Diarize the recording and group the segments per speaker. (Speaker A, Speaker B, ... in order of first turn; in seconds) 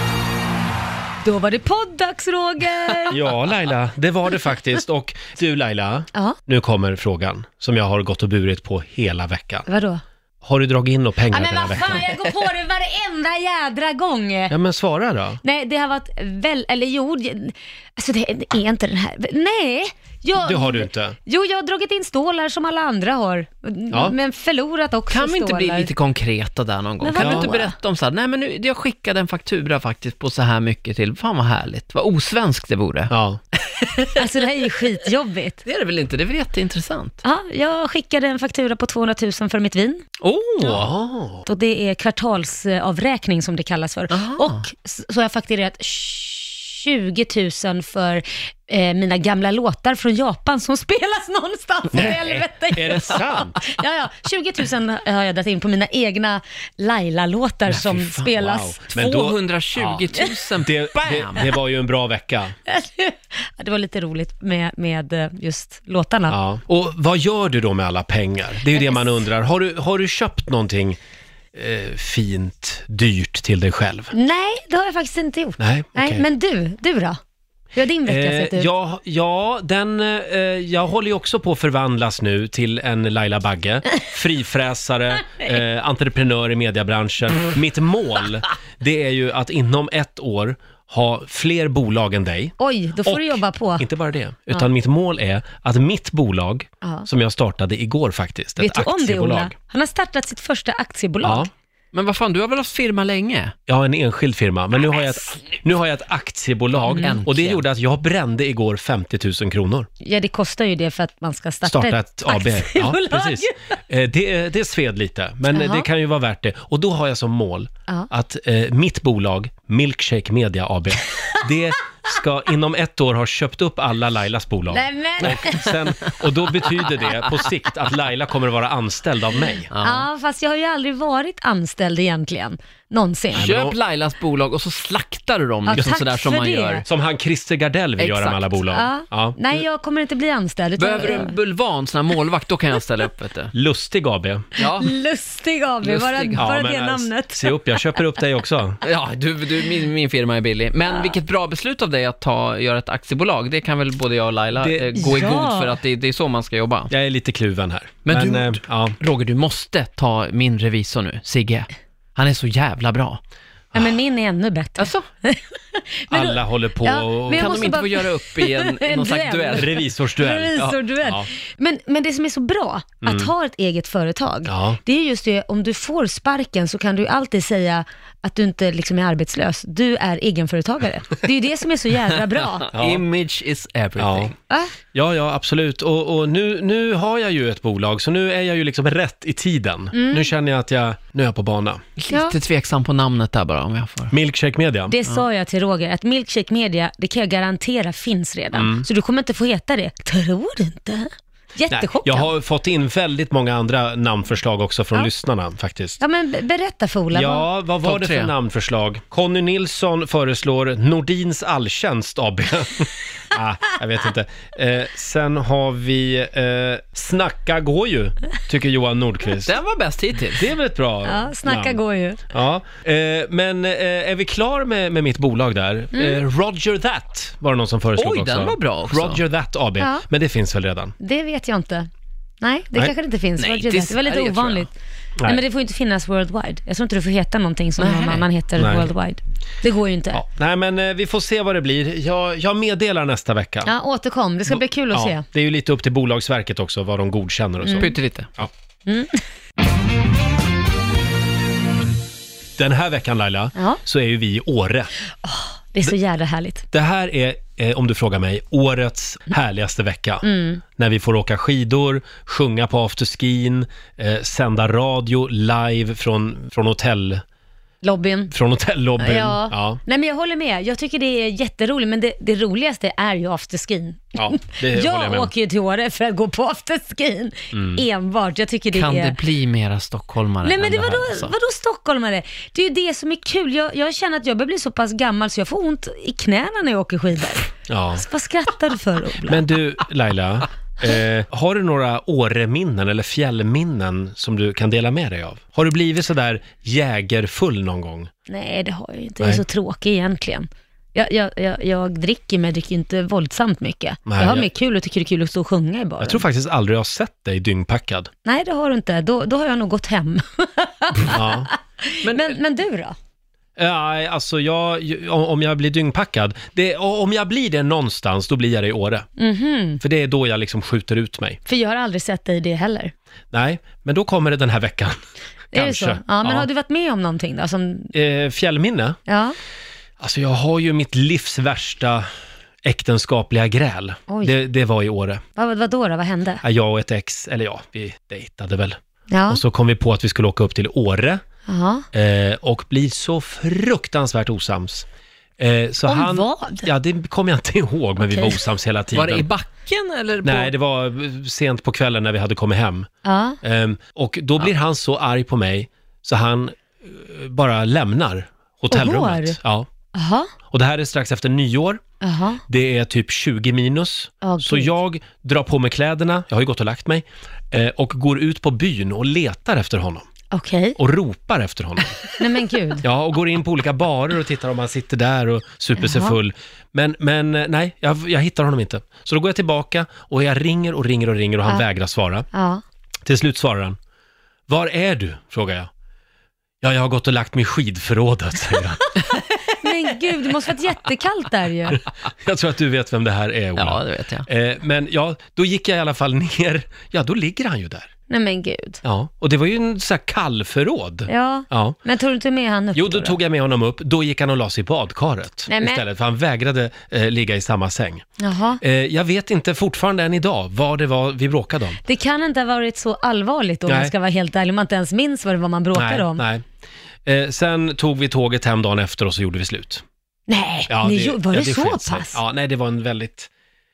Speaker A: 1.2-3.2, 9.7-10.0, 11.3-14.6, 15.4-25.9, 27.0-27.8, 34.0-35.6, 37.2-40.0, 41.5-58.8, 62.7-66.4, 68.7-69.2, 74.1-77.2, 77.8-78.7, 92.6-93.9, 96.8-97.1, 98.6-101.5, 110.0-113.6, 115.5-115.9, 124.7-125.7, 129.8-133.5, 135.7-136.8, 138.7-141.3, 144.6-147.6, 154.9-155.7, 163.8-182.7, 189.9-190.3, 192.1-192.4, 194.9-202.3, 206.0-207.5, 221.1-222.2, 225.9-226.2, 229.8-230.1, 231.0-231.9, 232.4-234.7, 235.2-240.2, 243.7-245.2, 247.6-247.9, 248.9-249.2, 253.6-253.8, 255.2-256.7, 260.2-260.6, 267.8-268.3, 269.0-279.2, 280.4-289.4, 298.3-306.2, 308.2-312.9, 319.2-319.8, 321.5-322.9, 325.5-327.9, 329.1-329.4, 334.1-334.4, 335.4-336.4, 339.1-339.4, 341.5-341.9, 345.9-346.7, 348.0-348.4, 353.0-353.4, 358.7-359.4, 359.9-360.3, 362.0-362.4, 364.2-364.7, 370.3-370.8, 372.2-372.8, 375.8-376.2, 382.3-382.6, 389.1-391.8, 398.1-398.8, 401.1-403.2, 405.5-405.8, 408.2-408.6, 411.8-416.2, 420.3-422.2
Speaker B: 3.1-9.7, 10.4-12.1, 14.5-15.4, 20.4-21.2, 27.2-27.5, 33.1-33.4, 40.6-41.5, 51.9-53.6, 58.2-60.0, 60.6-62.5, 66.3-71.0, 71.5-74.1, 75.6-76.2, 78.0-99.5, 101.2-101.5, 103.7-109.9, 111.6-129.7, 133.3-133.8, 136.9-139.6, 143.5-144.6, 146.4-148.8, 154.6-155.0, 156.9-158.9, 166.1-167.7, 169.6-171.3, 173.0-173.3, 174.5-174.8, 182.7-183.0, 184.0-184.3, 184.9-191.8, 194.1-194.9, 198.5-198.9, 201.7-206.0, 207.1-219.6, 220.3-221.8, 222.3-230.9, 238.6-238.9, 240.1-243.7, 244.5-248.5, 252.6-254.9, 256.7-267.2, 268.3-269.8, 274.2-275.3, 277.5-277.8, 287.7-288.1, 289.3-298.1, 304.1-304.5, 306.0-308.1, 311.1-311.5, 313.6-319.1, 319.8-321.4, 323.3-325.0, 325.5-326.5, 327.9-329.0, 330.0-332.1, 332.6-335.2, 336.4-338.8, 339.3-341.2, 341.9-344.9, 345.4-349.3, 350.2-352.9, 353.4-359.7, 360.5-361.8, 362.5-370.1, 370.8-372.0, 372.8-382.3, 383.0-383.8, 384.5-385.7, 386.6-388.9, 392.2-397.9, 398.8-401.8, 402.8-408.1, 408.6-411.8, 413.7-413.9, 415.7-416.5, 417.1-419.8, 420.7-423.3
Speaker C: 25.1-33.1, 33.8-34.2, 35.6-37.2, 40.2-40.9, 44.1-44.6, 57.8-58.2, 58.9-61.5, 101.9-103.5, 106.9-107.6, 129.7-130.1, 133.3-136.8, 138.0-138.6, 140.8-143.5, 144.6-144.9, 145.8-146.5, 148.8-156.9, 158.1-163.2, 164.8-165.1, 167.3-169.8, 182.7-184.3, 192.0-194.1, 207.8-208.3, 219.4-220.5, 228.0-229.2, 233.4-234.7, 237.8-238.2, 247.8-248.3, 278.7-281.4, 312.0-312.4, 348.9-350.5, 393.6-394.3